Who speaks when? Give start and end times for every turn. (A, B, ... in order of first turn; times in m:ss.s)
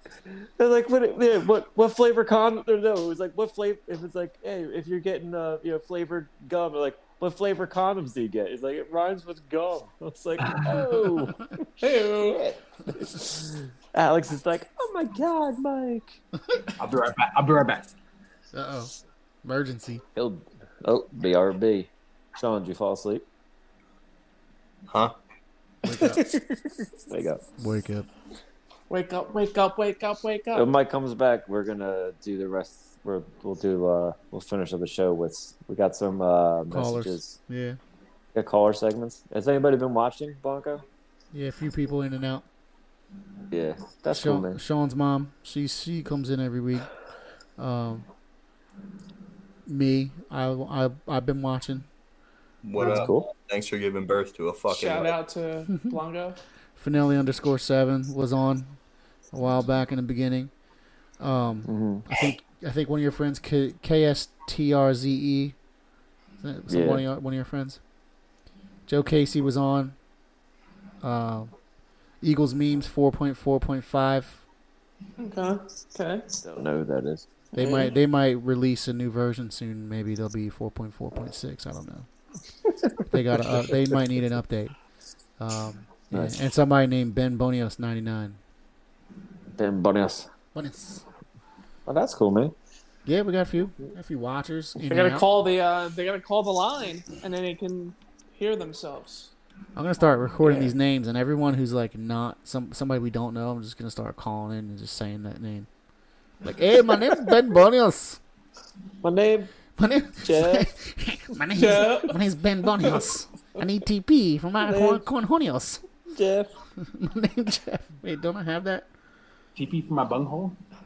0:00.3-0:16.2 A
0:11.8-0:12.5 B
0:16.8-0:17.9 C
0:18.5-0:18.9 D
0:19.4-0:20.0 D
0:20.2-0:23.2 A
0:24.9-0:25.1 E
0:25.8-0:26.2 D
0:25.9-0:27.4 A
0:27.6-0:28.1 D
0:28.9-0:30.7 B
0:30.5-0:37.4 A
0:36.7-0:37.8 D
0:38.3-0:40.8 A
0:41.3-0:42.4 D
0:43.5-0:44.6 A
0:44.1-0:46.9 D
0:47.6-0:48.1 D
0:49.6-0:51.9 D
0:52.6-0:55.2 E
0:52.8-0:53.3 A
0:54.7-0:56.4 B
0:56.8-0:58.8 D
0:59.3-1:00.5 D
1:01.2-1:05.5 D
1:01.6-1:02.1 A
1:06.4-1:07.8 D
1:06.7-1:07.0 A
1:08.9-1:10.0 D
1:11.0-1:11.5 D
1:12.2-1:14.4 D
1:15.2-1:16.3 B
1:16.4-1:17.3 A
1:17.5-1:17.9 B
1:17.6-1:22.1 D
1:23.0-1:24.7 D
1:25.4-1:28.4 D
1:26.1-1:26.5 A
1:29.6-1:30.3 A
1:30.5-1:31.0 D
1:31.9-1:32.5 A
1:33.0-1:35.3 D
1:34.8-1:39.3 B
1:39.8-1:45.7 D
1:40.4-1:40.7 A
1:46.4-1:48.2 D
1:49.0-1:49.5 A
1:49.8-1:55.8 D
1:50.2-1:50.7 A
1:51.5-1:52.2 B
1:54.6-1:55.1 A
1:56.1-1:56.5 A
1:56.9-1:58.9 D
1:59.6-2:00.6 C